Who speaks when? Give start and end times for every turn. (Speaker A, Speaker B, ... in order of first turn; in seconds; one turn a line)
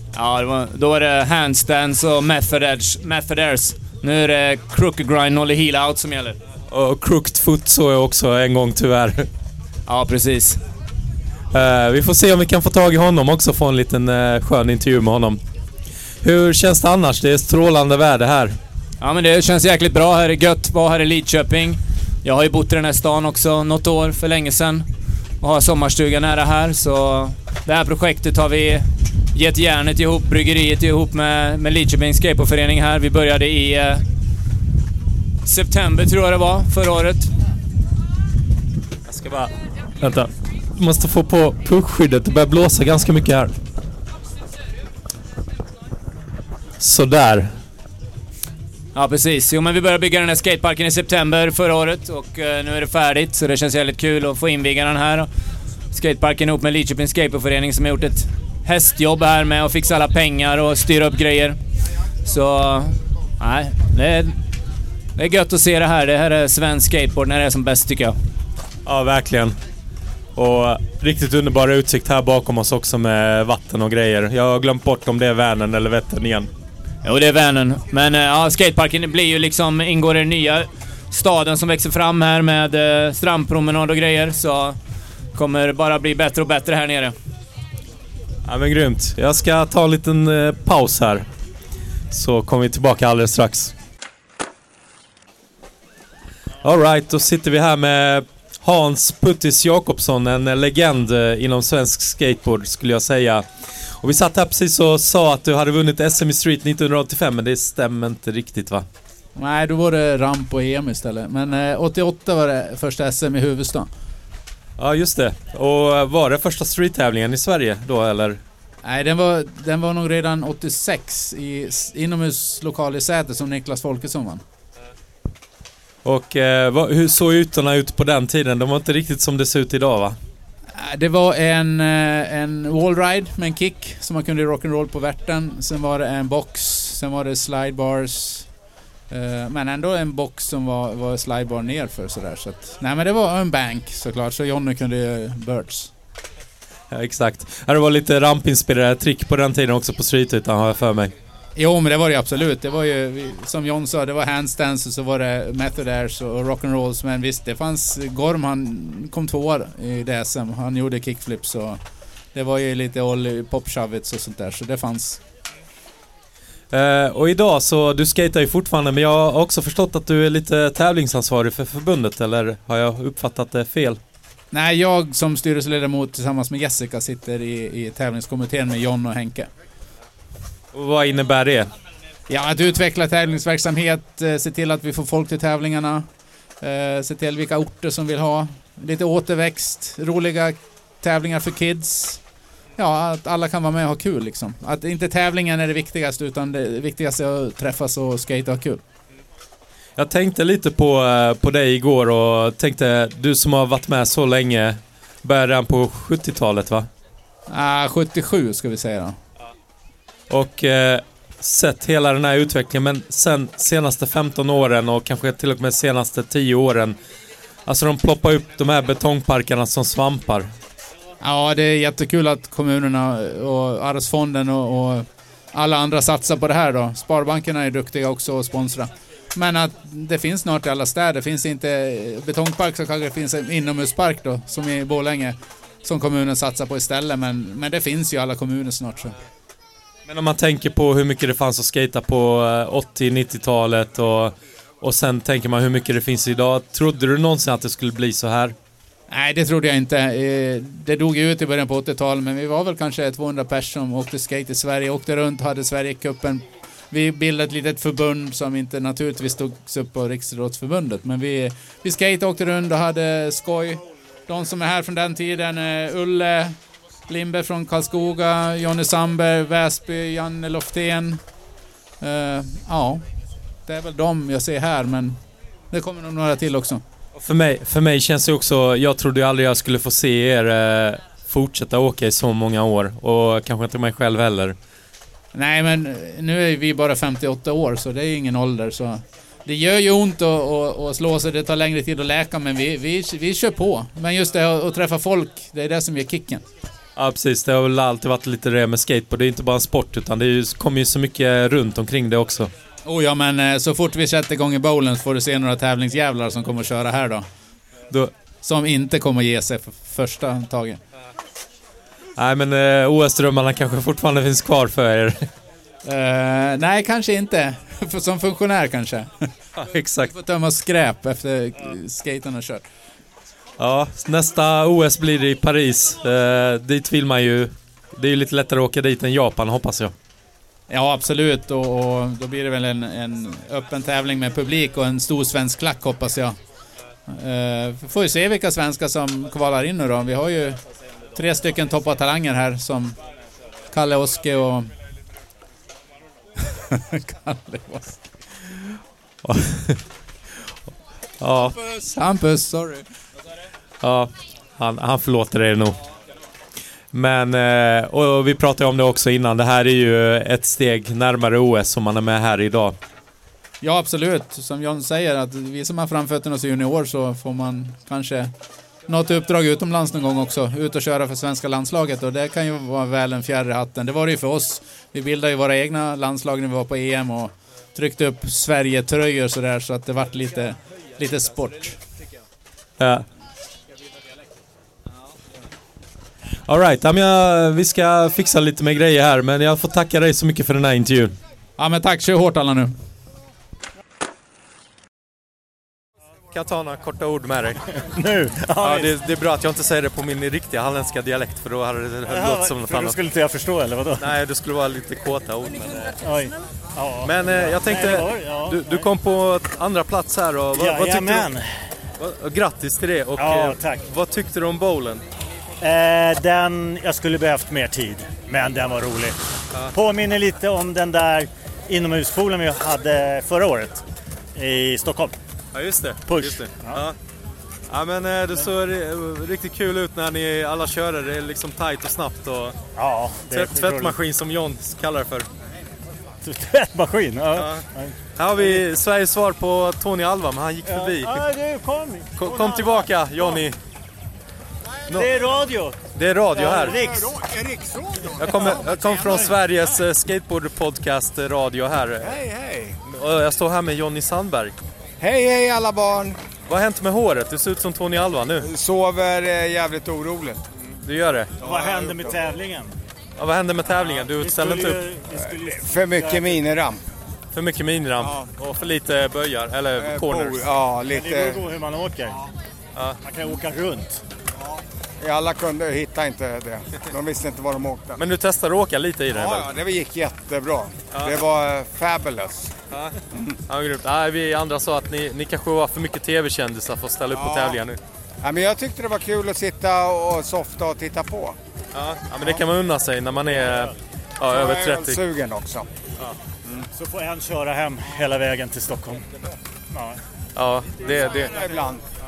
Speaker A: 0.1-6.4
Speaker B: 6.7-9.3
Speaker A: 9.9-10.6
Speaker B: 11.5-15.4
Speaker B: 16.2-18.6
Speaker A: 19.0-24.9
Speaker A: 25.4-34.0
Speaker A: 35.4-37.3
Speaker B: 39.1-43.5
Speaker B: 46.8-47.6
Speaker A: 48.9-55.3
Speaker A: 55.9-61.6
Speaker A: 62.2-64.4
Speaker A: 65.2-68.2
Speaker B: 68.8-69.6
Speaker B: 70.3-76.5
Speaker A: 77.0-84.8
Speaker A: 85.3-87.1
Speaker B: 88.5-91.3
Speaker B: 92.1-93.7
Speaker B: 96.6-108.8
Speaker C: 109.3-113.9
Speaker B: 114.8-118.4
Speaker C: 118.8-124.4
Speaker B: 126.0-130.2
Speaker C: 130.8-138.5
Speaker C: 139.1-145.9
Speaker B: 146.9-151.1
Speaker C: 151.6-161.8
Speaker C: 162.3-165.2
Speaker B: 166.7-174.0
Speaker C: 174.5-179.5
Speaker B: 180.7-181.7
Speaker C: 182.3-186.1
Speaker C: 186.6-192.2
Speaker C: 192.8-198.8
Speaker B: 200.0-206.9
Speaker C: 207.5-209.2
Speaker B: 210.3-216.9
Speaker B: 217.7-220.5
Speaker C: 221.2-239.1
Speaker B: 240.1-248.5
Speaker C: 249.1-266.6
Speaker C: 267.1-271.2
Speaker C: 272.0-273.0
Speaker C: 273.6-276.8
Speaker B: 277.1-284.6
Speaker C: 285.3-296.4
Speaker B: 296.9-302.5
Speaker C: 302.9-307.2
Speaker C: 308.4-310.8
Speaker B: 312.2-315.2
Speaker C: 315.8-319.3
Speaker B: 319.6-320.1
Speaker C: 320.0-322.6
Speaker B: 323.6-329.9
Speaker C: 330.7-336.4
Speaker C: 337.1-340.6
Speaker C: 341.1-343.0
Speaker C: 343.7-344.7
Speaker C: 346.5-348.5
Speaker B: 349.2-349.8
Speaker B: 351.2-351.6
Speaker C: 351.4-352.9
Speaker B: 353.8-355.8
Speaker B: 356.9-362.8
Speaker C: 363.6-368.3
Speaker C: 368.9-381.8
Speaker B: 382.8-383.1
Speaker B: 386.5-391.2
Speaker C: 391.6-392.7
Speaker B: 396.3-397.6
Speaker D: 397.8-398.9
Speaker B: 398.6-403.0
Speaker D: 402.1-404.1
Speaker B: 404.0-405.9
Speaker D: 406.0-408.9
Speaker B: 407.0-411.3
Speaker D: 410.5-411.7
Speaker B: 412.0-415.0
Speaker D: 413.1-413.9
Speaker D: 415.6-419.2
Speaker D: 419.7-423.8
Speaker D: 424.4-425.1
Speaker B: 425.5-426.9
Speaker D: 426.1-426.8
Speaker B: 427.7-432.6
Speaker D: 432.8-434.0
Speaker B: 433.3-435.3
Speaker D: 436.2-438.6
Speaker B: 437.3-437.6
Speaker B: 438.1-441.2
Speaker D: 440.6-443.5
Speaker B: 442.2-443.6
Speaker B: 444.9-445.1
Speaker D: 444.9-445.8
Speaker B: 445.9-446.8
Speaker D: 446.3-447.6
Speaker B: 448.2-452.2
Speaker D: 448.2-449.3
Speaker E: 452.2-452.7
Speaker B: 452.9-454.6
Speaker E: 455.0-456.1
Speaker B: 456.5-458.5
Speaker E: 458.4-460.4
Speaker B: 460.8-461.3
Speaker D: 461.4-462.7
Speaker E: 461.4-462.1
Speaker B: 463.2-464.8
Speaker D: 463.6-466.5
Speaker E: 465.5-466.8
Speaker B: 467.3-470.5
Speaker E: 469.8-471.4
Speaker D: 470.8-472.2
Speaker D: 473.0-474.0
Speaker E: 475.0-478.0
Speaker B: 477.9-479.5
Speaker E: 479.1-482.5
Speaker B: 480.9-481.2
Speaker B: 483.5-487.8
Speaker E: 487.1-487.6
Speaker E: 488.2-491.4
Speaker B: 491.7-495.0
Speaker D: 493.3-493.7
Speaker E: 494.3-495.7
Speaker D: 496.6-499.0
Speaker D: 499.7-500.0
Speaker B: 500.4-501.4
Speaker D: 501.2-501.6
Speaker E: 501.4-501.8